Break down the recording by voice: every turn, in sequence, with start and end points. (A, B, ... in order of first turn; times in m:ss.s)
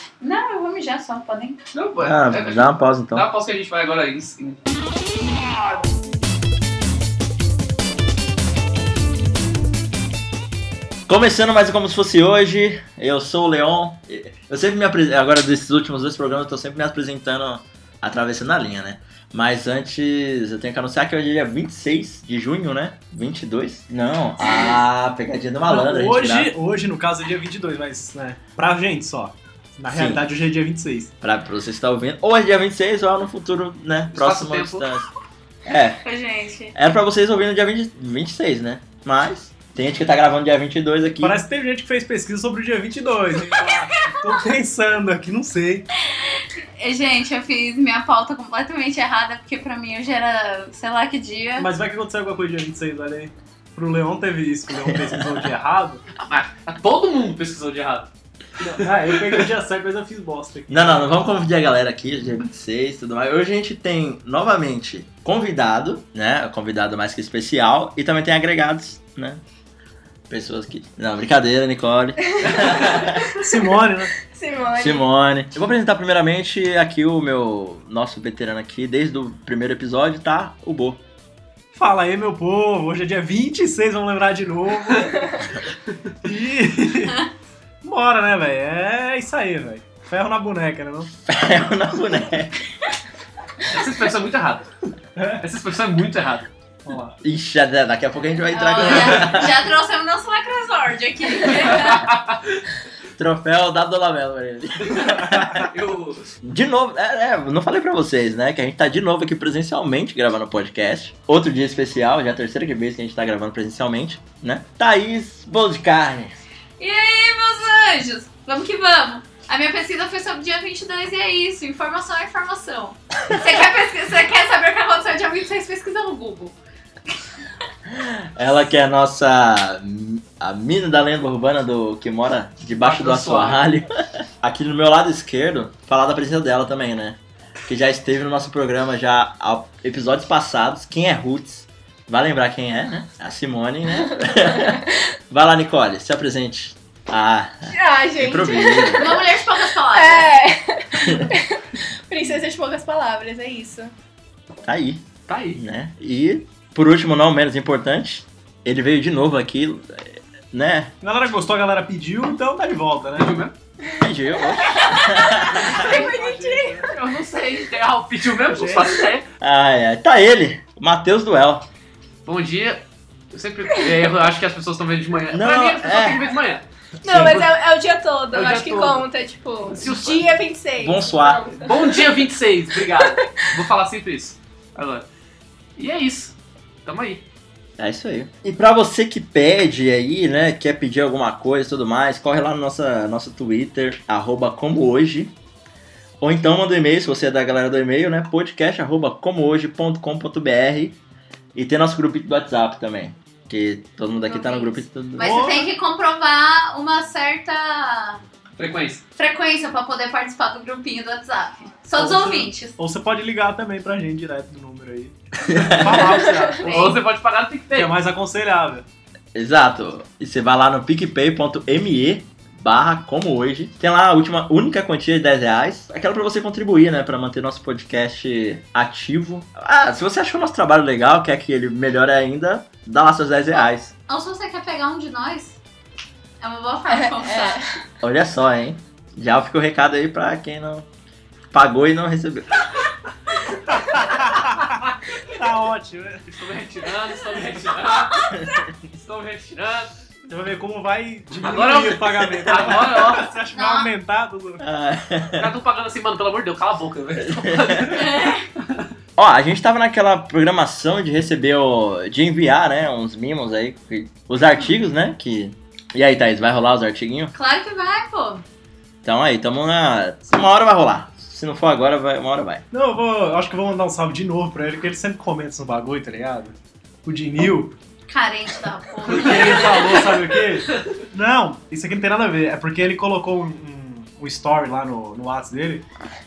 0:00.2-0:01.6 A
0:01.7-0:04.6 B
0:02.0-0:03.3 C
0:11.1-0:26.5 C
0:25.6-0:31.1 D
0:29.9-0:30.2 C
0:31.2-0:35.1 C
0:34.1-0:34.8 B
0:35.6-0:36.0 C
0:36.0-0:36.7 A
0:36.7-0:41.4 C
0:41.2-0:45.8 D
0:43.7-0:44.2 A
0:46.1-0:51.7 A
0:51.6-0:56.0 D
0:56.2-0:58.1 B
0:58.6-1:01.2 D
1:00.7-1:09.4 C
1:10.3-1:13.3 C
1:12.4-1:13.3 E
1:13.3-1:14.1 D
1:14.2-1:15.0 E
1:14.8-1:21.0 C
1:21.7-1:25.4 D
1:26.2-1:27.3 D
1:27.8-1:31.1 D
1:31.2-1:32.6 C
1:33.7-1:34.7 B
1:35.2-1:35.4 D
1:35.4-1:36.5 B
1:36.8-1:37.2 D
1:37.2-1:39.6 C
1:38.5-1:42.1 A
1:41.6-1:42.2 B
1:43.2-1:45.6 C
1:45.0-1:46.3 B
1:45.3-1:45.7 D
1:46.4-1:56.4 C
1:56.8-2:06.5 A
2:07.8-2:29.2 C
2:12.8-2:13.6 B
2:27.7-2:29.3 E
2:28.9-2:30.3 A
2:29.9-2:33.9 E
2:31.0-2:31.3 C
2:34.6-2:40.9 C
2:35.3-2:35.6 B
2:41.0-2:43.5 D
2:43.2-2:43.5 B
2:43.9-2:45.9 C
2:44.7-2:46.9 E
2:45.5-2:46.9 D
2:46.8-2:49.2 B
2:48.5-2:48.9 D
2:49.4-2:51.6 C
2:52.2-2:57.5 B
2:55.3-2:56.3 C
2:57.0-3:02.1 E
2:58.3-2:59.0 B
2:59.7-3:00.4 B
3:00.8-3:01.6 C
3:01.6-3:05.1 B
3:03.0-3:03.5 E
3:05.8-3:07.2 B
3:07.8-3:15.3 C
3:16.2-3:21.0 C
3:21.5-3:25.4 C
3:24.2-3:28.2 A
3:25.2-3:25.7 D
3:28.6-3:29.0 B
3:29.2-3:32.7 A
3:32.0-3:36.7 D
3:35.5-3:36.0 C
3:36.3-3:36.5 E
3:36.6-3:37.9 B
3:36.6-3:37.0 A
3:37.7-3:38.8 D
3:39.3-3:53.9 C
3:54.1-3:55.6 A
3:56.4-3:57.6 A
3:56.9-3:57.7 E
3:58.0-4:00.9 C
4:01.5-4:02.7 C
4:03.5-4:06.4 D
4:06.3-4:08.2 B
4:08.3-4:08.7 C
4:08.9-4:09.9 B
4:10.3-4:14.6 D
4:11.4-4:13.3 B
4:13.5-4:13.9 A
4:14.6-4:15.5 C
4:15.3-4:18.8 B
4:17.4-4:17.9 C
4:17.9-4:18.4 A
4:19.2-4:27.3 C
4:27.3-4:28.4 A
4:29.0-4:32.6 C
4:32.7-4:37.8 D
4:38.1-4:40.3 A
4:39.1-4:45.8 D